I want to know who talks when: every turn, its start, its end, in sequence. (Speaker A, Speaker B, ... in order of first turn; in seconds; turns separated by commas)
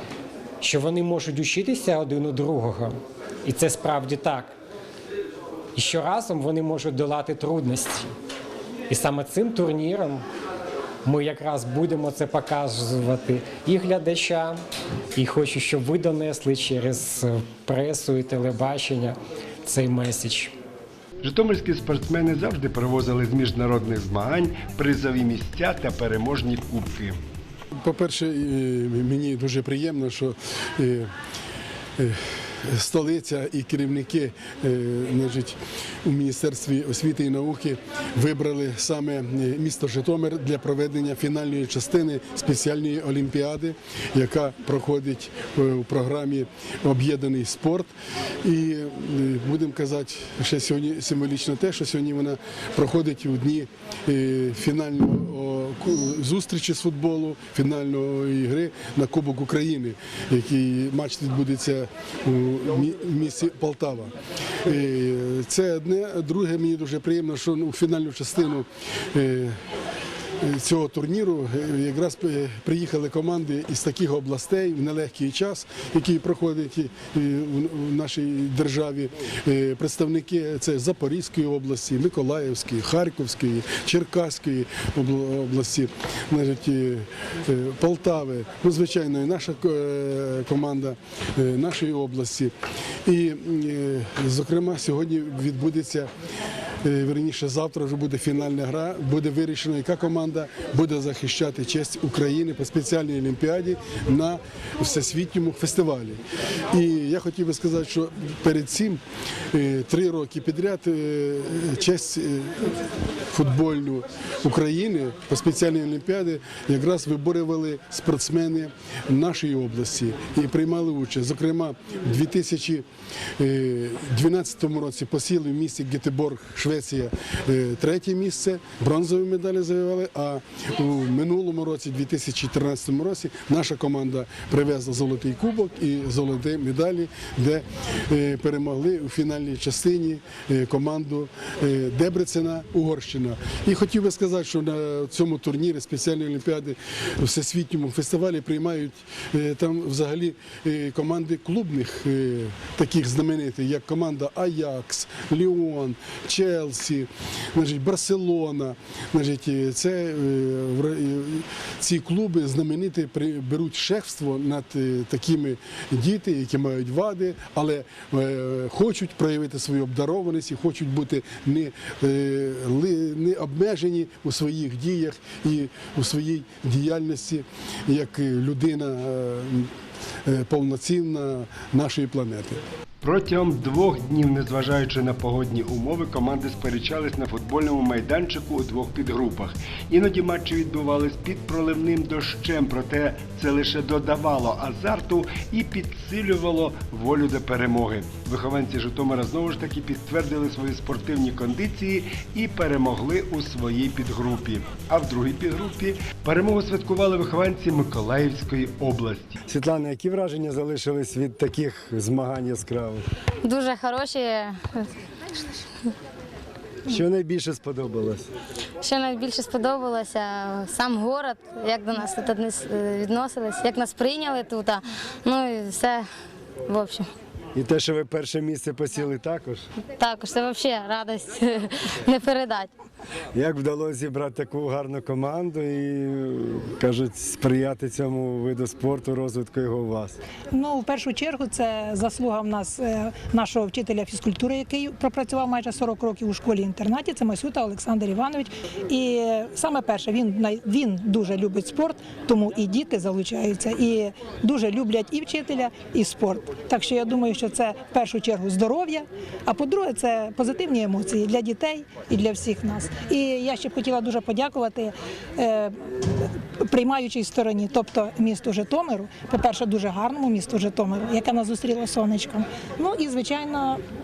Speaker A: 0.6-4.5, Speaker A: 5.8-8.1, Speaker A: 8.9-10.2, Speaker A: 11.1-14.6, Speaker A: 15.2-20.6, Speaker B: 21.2-27.2, Speaker C: 27.8-31.1, Speaker C: 32.0-47.9, Speaker C: 48.4-64.1, Speaker C: 64.7-69.6, Speaker C: 70.4-92.5, Speaker C: 93.0-96.1, Speaker C: 96.8-122.9, Speaker C: 123.4-179.7, Speaker C: 180.2-182.6, Speaker B: 183.0-213.1, Speaker D: 213.4-215.9, Speaker B: 216.9-218.3, Speaker D: 218.8-226.1, Speaker D: 226.7-227.1, Speaker B: 227.6-229.7, Speaker D: 230.0-232.7, Speaker B: 233.3-240.2, Speaker E: 240.5-273.8